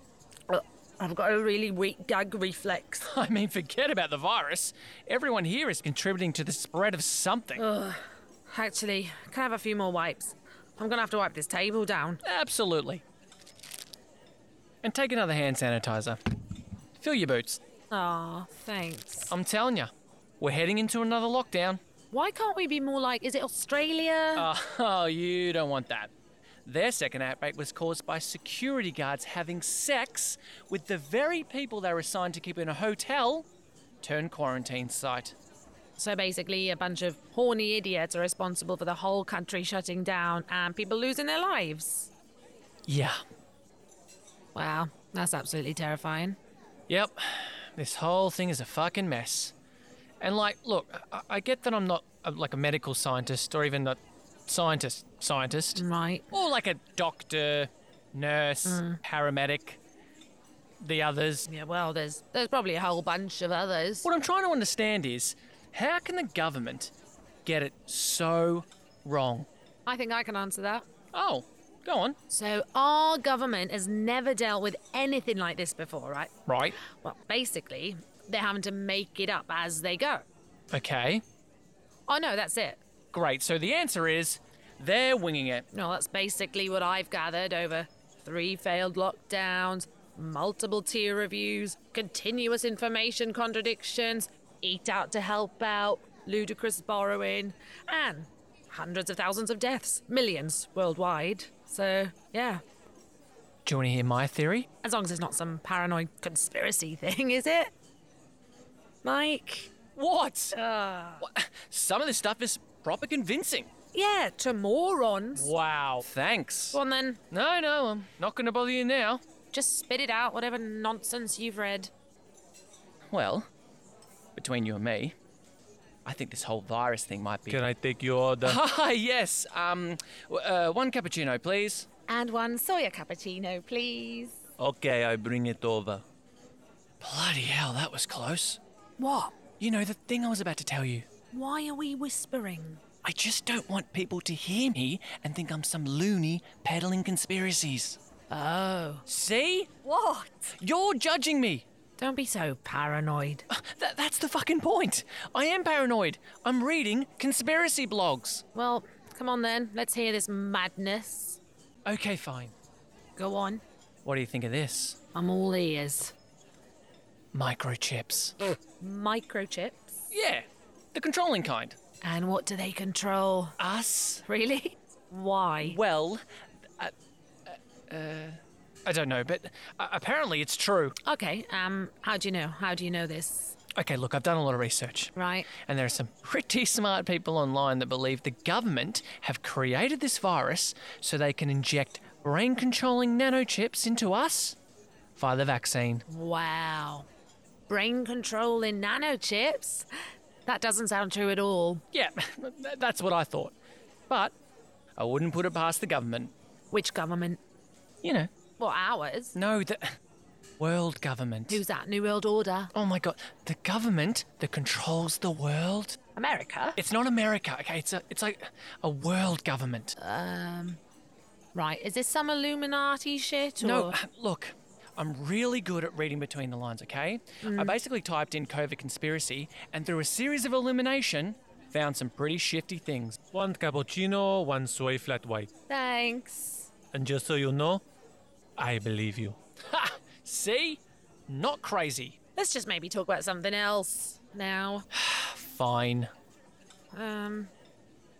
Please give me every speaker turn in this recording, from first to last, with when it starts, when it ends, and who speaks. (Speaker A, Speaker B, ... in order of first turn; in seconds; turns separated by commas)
Speaker A: 0.5-3.1, Speaker B: 3.0-7.6, Speaker A: 7.5-12.2, Speaker B: 12.2-13.0, Speaker B: 14.8-16.2, Speaker B: 17.0-17.6, Speaker A: 17.9-19.3, Speaker B: 19.3-21.8, Speaker A: 22.1-24.5, Speaker B: 24.4-26.1, Speaker B: 26.6-33.5, Speaker B: 34.0-35.3, Speaker A: 36.0-42.1, Speaker B: 42.9-43.2, Speaker A: 44.5-46.4, Speaker B: 46.9-49.5, Speaker B: 50.2-59.8, Speaker A: 55.8-56.3, Speaker A: 58.6-59.0, Speaker B: 60.8-61.5, Speaker A: 61.5-64.1, Speaker B: 64.0-66.9, Speaker B: 67.4-69.5, Speaker A: 69.8-70.8, Speaker B: 71.1-72.2, Speaker A: 72.3-76.3, Speaker B: 76.5-76.8, Speaker A: 76.8-80.2, Speaker B: 80.7-81.2, Speaker A: 82.1-82.8, Speaker B: 83.1-85.7, Speaker A: 85.7-102.6, Speaker B: 103.6-104.7, Speaker A: 104.8-107.7, Speaker A: 109.0-109.7, Speaker B: 109.9-110.6, Speaker A: 110.5-111.3, Speaker B: 111.2-113.7, Speaker A: 113.9-115.5, Speaker B: 115.3-116.8, Speaker A: 116.7-117.2, Speaker B: 117.3-119.2, Speaker A: 119.5-121.9, Speaker B: 123.1-123.5, Speaker B: 124.3-125.1, Speaker B: 126.0-127.6, Speaker C: 127.5-128.6, Speaker B: 128.4-131.9, Speaker A: 132.1-134.4, Speaker C: 134.6-136.0, Speaker B: 137.0-138.6, Speaker A: 139.0-139.3, Speaker B: 139.6-141.1, Speaker A: 141.3-142.8, Speaker B: 143.0-148.0, Speaker A: 148.3-149.0, Speaker B: 149.1-149.8, Speaker A: 149.8-150.5, Speaker B: 150.6-151.6, Speaker A: 152.0-153.4, Speaker B: 153.5-158.4, Speaker A: 158.5-161.4, Speaker B: 161.8-162.5, Speaker A: 163.2-163.6, Speaker B: 164.0-165.0, Speaker A: 165.1-166.1, Speaker B: 167.3-168.3, Speaker A: 168.8-170.1, Speaker B: 170.1-171.8, Speaker A: 172.0-173.6, Speaker B: 173.6-174.2, Speaker A: 174.2-175.8, Speaker B: 175.6-176.2, Speaker B: 177.4-180.9, Speaker A: 181.0-183.6, Speaker B: 183.8-194.6, Speaker A: 185.2-185.5, Speaker B: 195.2-196.0, Speaker A: 196.1-197.1, Speaker A: 197.7-199.9, Speaker A: 200.4-201.8, Speaker B: 201.9-203.5, Speaker B: 205.0-206.3, Speaker A: 206.7-207.4, Speaker B: 208.0-208.3, Speaker A: 208.6-209.3, Speaker B: 209.3-210.0, Speaker B: 210.6-211.6, Speaker A: 211.5-212.7, Speaker B: 212.7-216.0, Speaker A: 216.2-216.8, Speaker B: 216.8-219.9, Speaker A: 220.0-220.8, Speaker A: 221.5-224.0, Speaker B: 223.6-233.2, Speaker A: 227.4-227.8, Speaker C: 233.3-235.5, Speaker A: 235.7-236.7, Speaker C: 236.9-237.8, Speaker C: 238.6-239.4, Speaker B: 239.6-242.2, Speaker A: 242.3-244.9, Speaker B: 244.9-246.1, Speaker A: 246.9-247.5